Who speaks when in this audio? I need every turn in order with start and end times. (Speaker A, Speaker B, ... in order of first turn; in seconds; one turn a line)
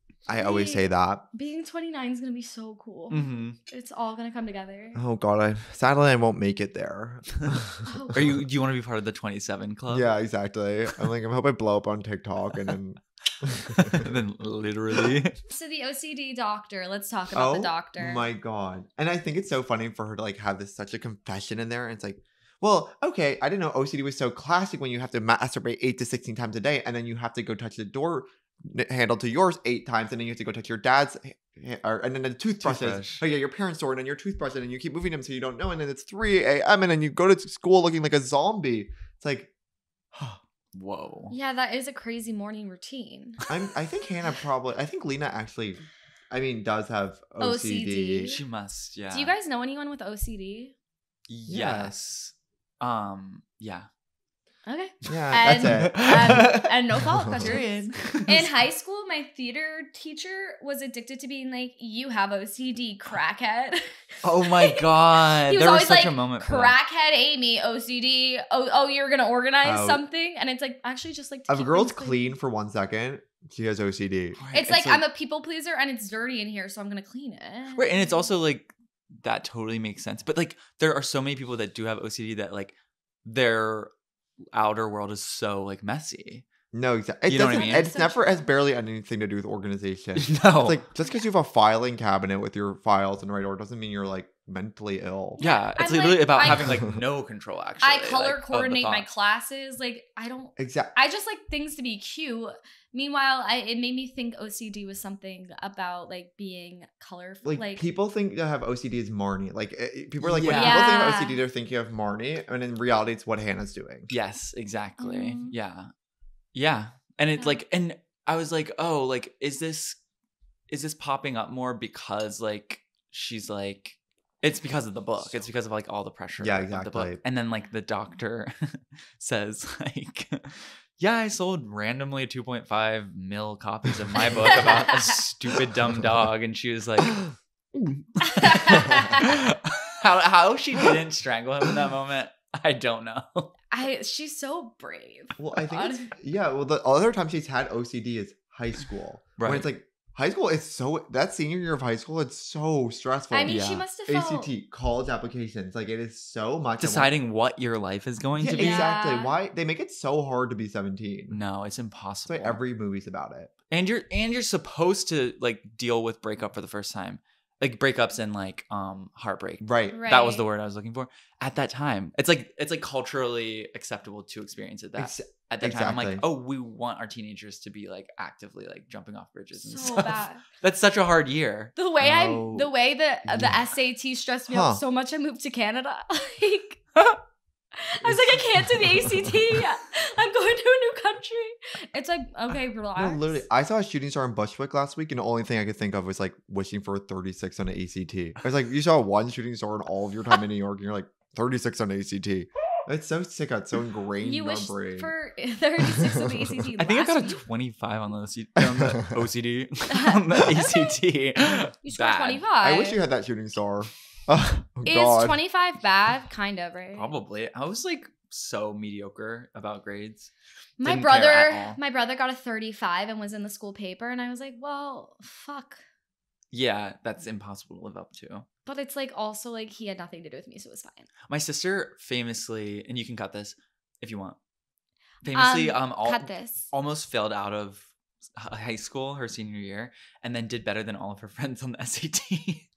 Speaker A: 0.2-1.3
Speaker B: 0.4-5.0
Speaker C: 3.1-3.6
Speaker A: 4.9-8.4
Speaker B: 7.8-8.2
Speaker C: 8.1-10.1
Speaker A: 9.9-14.1
Speaker C: 13.7-15.4
Speaker B: 15.5-18.3
Speaker A: 17.3-39.5
Speaker C: 32.6-33.2
Speaker A: 40.1-40.4
Speaker C: 40.7-41.3
Speaker B: 41.3-43.4
Speaker A: 43.5-48.3
Speaker B: 47.4-48.4
Speaker C: 48.3-49.3
Speaker B: 49.1-50.7
Speaker C: 51.3-53.9
Speaker A: 51.5-51.9
Speaker B: 54.7-72.3
Speaker A: 55.0-56.5
Speaker C: 55.5-56.7
Speaker A: 57.2-57.5
Speaker C: 57.3-58.5
Speaker C: 64.2-66.8
Speaker A: 69.6-70.0
Speaker A: 71.5-74.4
Speaker C: 74.4-75.0
Speaker B: 74.5-78.3
Speaker C: 77.7-83.9
Speaker C: 84.5-86.5
Speaker A: 86.7-95.4
Speaker C: 87.3-87.8
Speaker B: 87.4-88.3
Speaker C: 90.1-90.8
Speaker B: 95.4-96.7
Speaker C: 95.4-99.1
Speaker A: 96.5-97.0
Speaker B: 97.8-107.8
Speaker A: 100.6-100.9
Speaker A: 107.4-114.1
Speaker C: 110.2-110.9
Speaker B: 110.5-111.4
Speaker C: 114.1-115.9
Speaker B: 115.0-115.5
Speaker C: 116.5-120.0
Speaker C: 120.7-137.2
Speaker A: 126.4-127.2
Speaker B: 134.4-135.2
Speaker C: 137.7-143.5
Speaker B: 138.2-139.4
Speaker B: 143.7-146.1
Speaker A: 145.4-157.1
Speaker C: 149.4-149.7
Speaker B: 153.3-154.5
Speaker C: 153.4-153.8
Speaker C: 156.8-158.9
Speaker A: 158.4-161.4
Speaker B: 158.6-159.3
Speaker C: 161.3-162.6
Speaker A: 162.3-163.5
Speaker C: 163.7-181.7
Speaker A: 169.6-170.1
Speaker B: 169.9-170.4
Speaker A: 175.0-176.2
Speaker B: 179.6-180.4
Speaker B: 181.8-186.8
Speaker A: 182.0-182.7
Speaker A: 183.2-183.6
Speaker A: 184.5-184.8
Speaker B: 187.7-193.4
Speaker A: 188.0-189.6
Speaker A: 192.9-205.1
Speaker B: 204.2-207.4
Speaker A: 206.0-206.4
Speaker C: 206.8-212.4
Speaker A: 208.6-209.1
Speaker B: 209.9-211.0
Speaker B: 211.5-213.0
Speaker A: 212.6-215.4
Speaker B: 214.8-217.1
Speaker C: 216.9-220.3
Speaker B: 220.8-225.8
Speaker C: 220.8-221.8
Speaker C: 226.5-228.5
Speaker B: 228.7-231.1
Speaker C: 231.3-234.4
Speaker C: 235.2-242.7
Speaker B: 235.3-236.7